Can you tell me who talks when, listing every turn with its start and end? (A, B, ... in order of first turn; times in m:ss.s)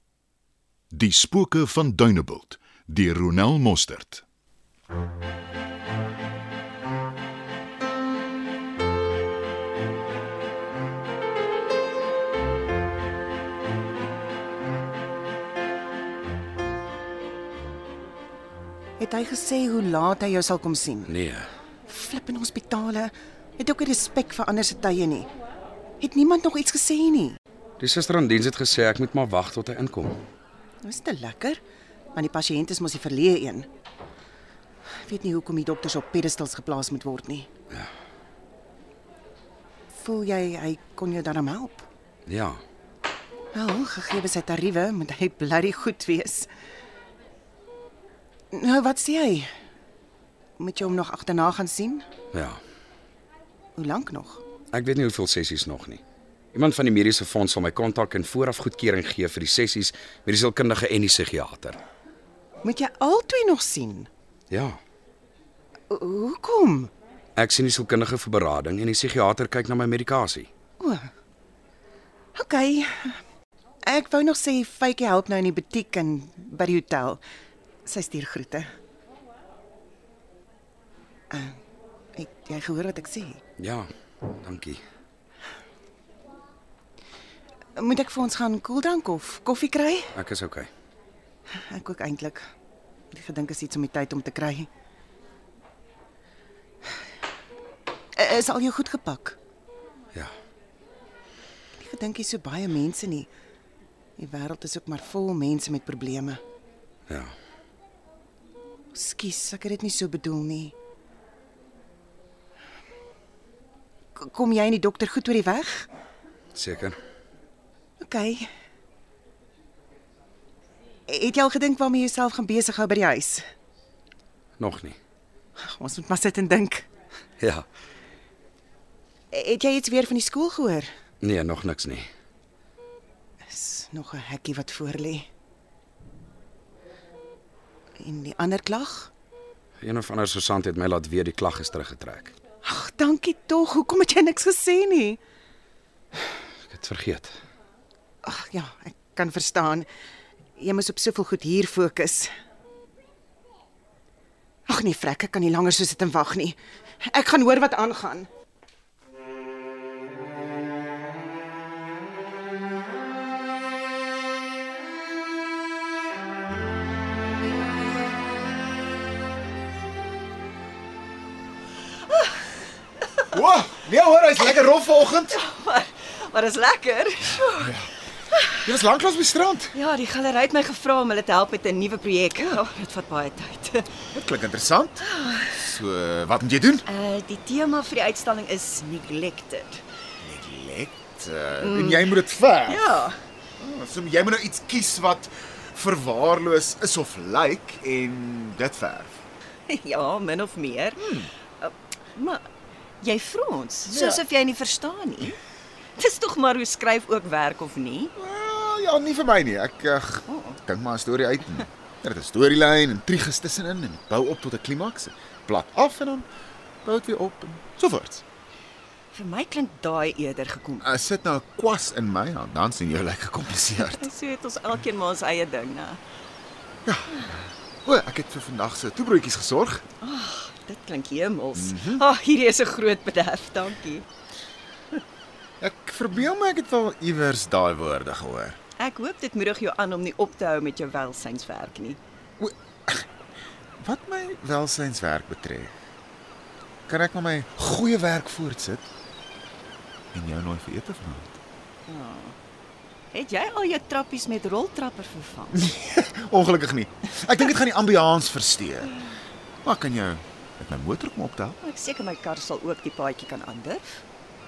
0:00.9-0:04.2 A
0:19.0-0:21.1 B
0:21.0-0:21.5 C
0:21.9-0:25.3 B
0:26.0-0:27.4 B
0:27.8-0:30.2 C
0:30.8-0:31.6 B
0:32.1-0:33.7 B
0:35.0-0:37.5 B
0:39.9-0:41.8 B
0:42.3-0:42.6 C
0:43.5-0:46.5 B
0:48.5-0:49.5 B
0:50.6-0:52.0 B
0:52.3-0:52.6 C
0:53.8-0:54.4 B
0:54.7-0:56.0 C
0:56.5-1:01.8 C
1:02.6-1:04.1 B
1:04.5-1:04.8 C
1:05.9-1:06.9 B
1:07.4-1:10.5 C
1:10.8-1:11.1 B
1:12.3-1:13.2 B
1:13.8-1:17.2 B
1:17.8-1:18.7 B
1:21.3-1:21.6 B
1:22.2-1:23.4 B
1:23.6-1:24.8 C
1:27.8-1:30.1 B
1:30.1-1:30.7 C
1:31.5-1:32.4 B
1:33.1-1:34.7 B
1:38.2-1:39.4 B
1:41.8-1:43.3 B
1:44.2-1:46.4 B
1:48.9-1:50.7 B
1:54.2-1:55.9 B
1:56.5-1:57.0 C
1:58.0-1:58.5 B
2:01.1-2:03.4 B
2:04.6-2:05.0 C
2:05.6-2:06.8 B
2:07.4-2:07.6 C
2:09.3-2:10.9 B
2:11.2-2:12.1 C
2:13.5-2:15.2 B
2:18.0-2:19.1 B
2:19.8-2:22.3 C
2:22.6-2:25.2 B
2:26.7-2:27.3 C
2:28.2-2:29.9 B
2:30.6-2:32.3 B
2:34.7-2:38.3 B
2:53.3-2:55.4 D
2:55.3-2:57.7 E
2:57.6-2:57.9 D
2:58.3-2:58.6 E
2:58.6-2:59.7 D
2:59.7-3:03.9 E
3:04.1-3:06.8 D
3:05.0-3:05.6 E
3:06.8-3:09.8 E
3:10.2-3:12.9 D
3:11.6-3:12.2 E
3:12.7-3:13.2 E
3:13.6-3:19.2 D
3:19.7-3:22.4 E
3:21.0-3:21.3 D
3:23.0-3:25.4 E
3:23.9-3:24.2 D
3:26.0-3:28.1 E
3:28.2-3:36.3 D
3:30.3-3:30.6 E
3:36.8-3:38.2 D
3:39.1-3:40.9 E
3:40.8-3:44.1 D
3:43.8-3:46.0 E
3:46.8-3:49.8 D
3:50.0-3:54.0 E
3:51.5-3:52.0 D
3:55.6-3:58.6 D
3:58.8-4:02.0 E
4:02.4-4:03.0 D
4:03.8-4:05.7 D
4:06.9-4:08.8 D
4:10.1-4:11.4 D
4:11.9-4:12.4 E
4:13.1-4:15.7 E
4:15.5-4:18.9 D
4:19.6-4:21.6 D
4:21.6-4:24.0 E